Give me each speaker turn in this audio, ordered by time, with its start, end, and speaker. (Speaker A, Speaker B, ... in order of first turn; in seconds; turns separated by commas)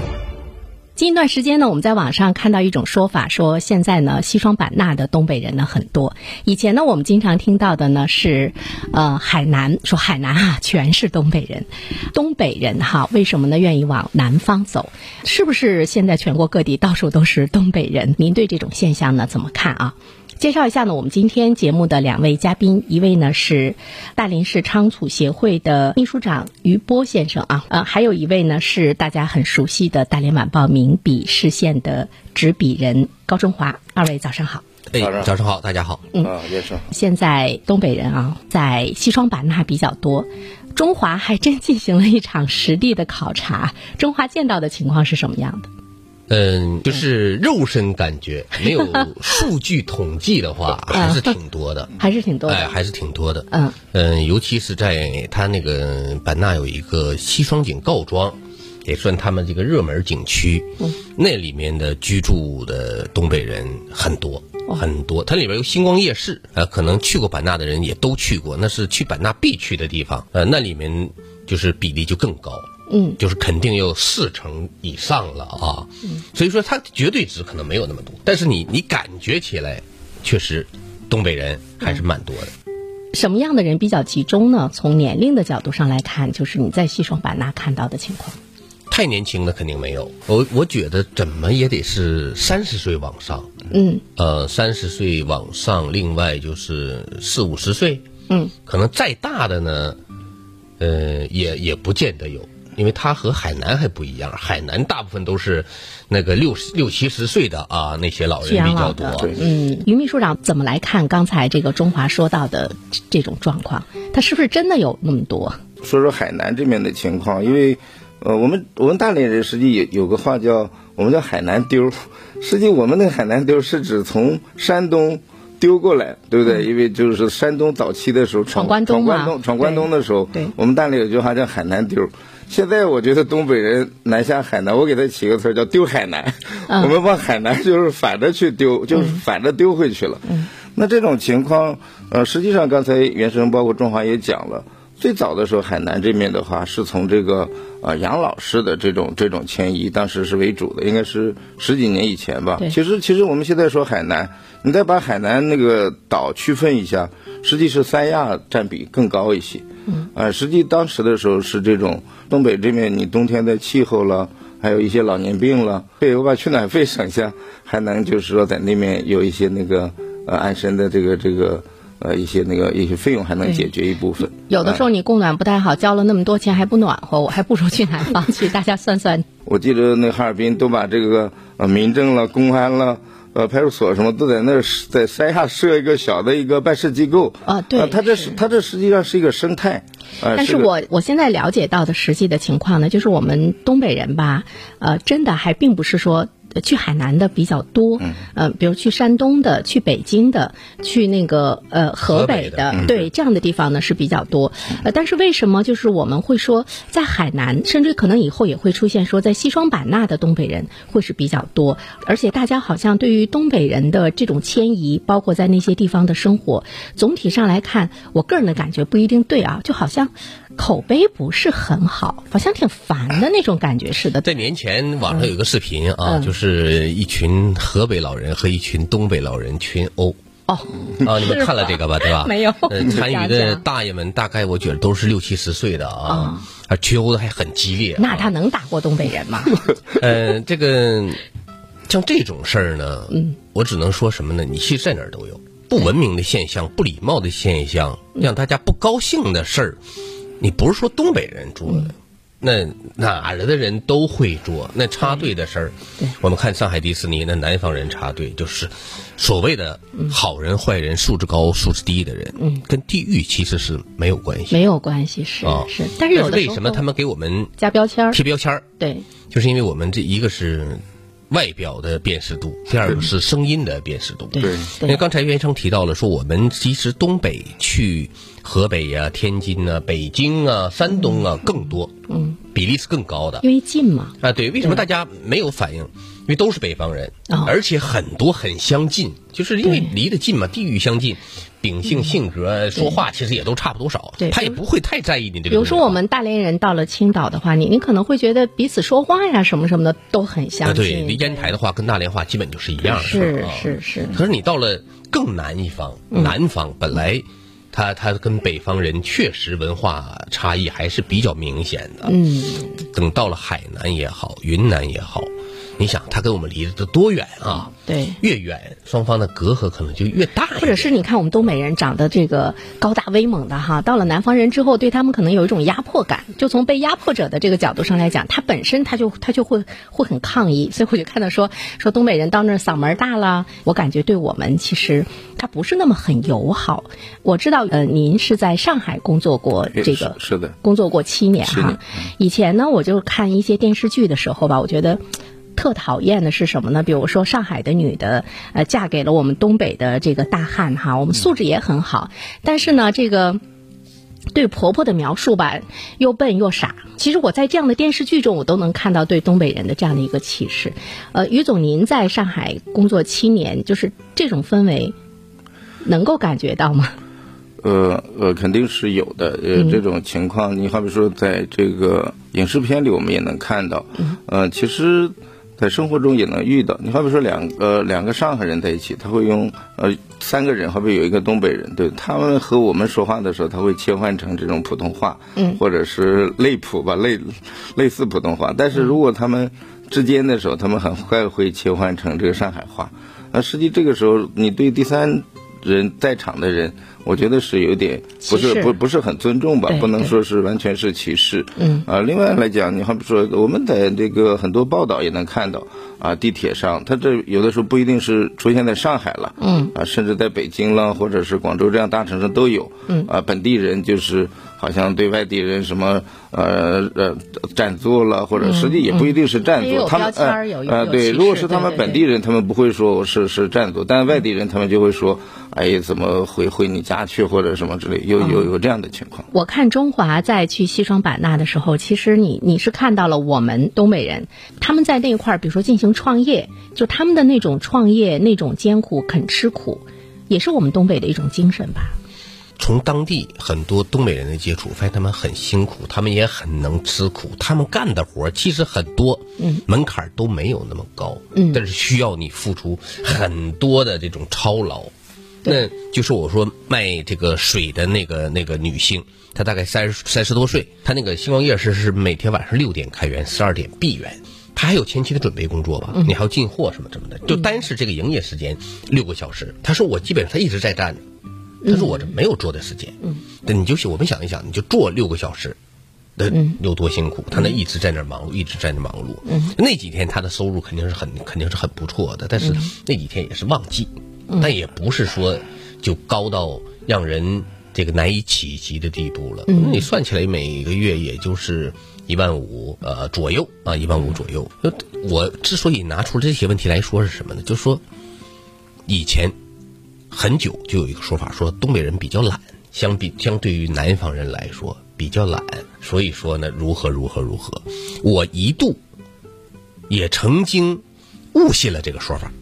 Speaker A: 1.0-34.6, Speaker B: 34.9-36.0, Speaker C: 35.0-35.3, Speaker C: 36.2-36.9, Speaker A: 36.9-45.7, Speaker B: 46.3-51.9, Speaker A: 50.9-51.3, Speaker A: 52.0-52.7, Speaker B: 52.5-72.7, Speaker A: 53.5-53.8, Speaker A: 72.9-73.2, Speaker B: 73.2-82.5, Speaker A: 83.1-88.4, Speaker B: 88.9-93.5, Speaker A: 93.7-94.0, Speaker B: 94.2-98.0, Speaker B: 98.7-100.0, Speaker B: 100.8-109.3, Speaker A: 108.4-115.6, Speaker C: 115.8-174.8, Speaker A: 128.5-130.5, Speaker A: 136.7-137.0, Speaker A: 173.4-173.7, Speaker A: 174.4-179.3, Speaker C: 179.5-190.7, Speaker A: 187.4-188.4, Speaker A: 190.3-224.3, Speaker B: 202.0-202.9, Speaker B: 224.2-230.2, Speaker A: 225.1-225.3, Speaker A: 226.1-226.3, Speaker A: 230.5-233.6, Speaker B: 231.0-238.3, Speaker A: 236.1-236.5, Speaker A: 238.0-239.6, Speaker B: 239.9-241.2, Speaker B: 241.9-249.8, Speaker B: 250.4-264.6, Speaker A: 262.4-262.6, Speaker A: 264.5-266.8, Speaker B: 265.4-267.6, Speaker A: 267.6-268.2, Speaker B: 268.1-268.6, Speaker A: 268.8-269.1, Speaker B: 269.3-281.9, Speaker A: 274.3-275.0, Speaker C: 274.4-274.7, Speaker A: 282.1-282.4, Speaker B: 282.5-283.4, Speaker A: 283.4-284.8, Speaker B: 284.2-296.0, Speaker A: 287.3-287.6, Speaker A: 289.6-289.9, Speaker A: 294.2-294.6, Speaker A: 295.5-301.6, Speaker B: 300.6-312.1, Speaker A: 302.9-304.2, Speaker A: 312.1-312.9, Speaker B: 312.9-320.9, Speaker A: 317.8-318.2, Speaker A: 320.6-345.0, Speaker C: 339.8-340.6, Speaker C: 341.4-342.0, Speaker A: 345.6-353.4, Speaker A: 354.3-364.9, Speaker A: 365.8-366.9, Speaker C: 367.6-429.3, Speaker A: 398.2-398.8, Speaker A: 399.7-400.1, Speaker A: 401.6-401.9, Speaker A: 409.4-409.7, Speaker A: 418.4-422.1, Speaker A: 428.2-428.5, Speaker A: 429.3-442.0, Speaker B: 442.6-454.9, Speaker A: 451.3-451.6, Speaker B: 455.4-471.0, Speaker A: 471.6-471.9, Speaker B: 471.7-475.6, Speaker B: 476.2-497.8, Speaker A: 476.3-476.6, Speaker A: 479.3-479.6, Speaker A: 489.5-489.9, Speaker B: 498.9-499.3, Speaker B: 500.1-508.8, Speaker B: 509.9-510.8, Speaker B: 511.3-512.3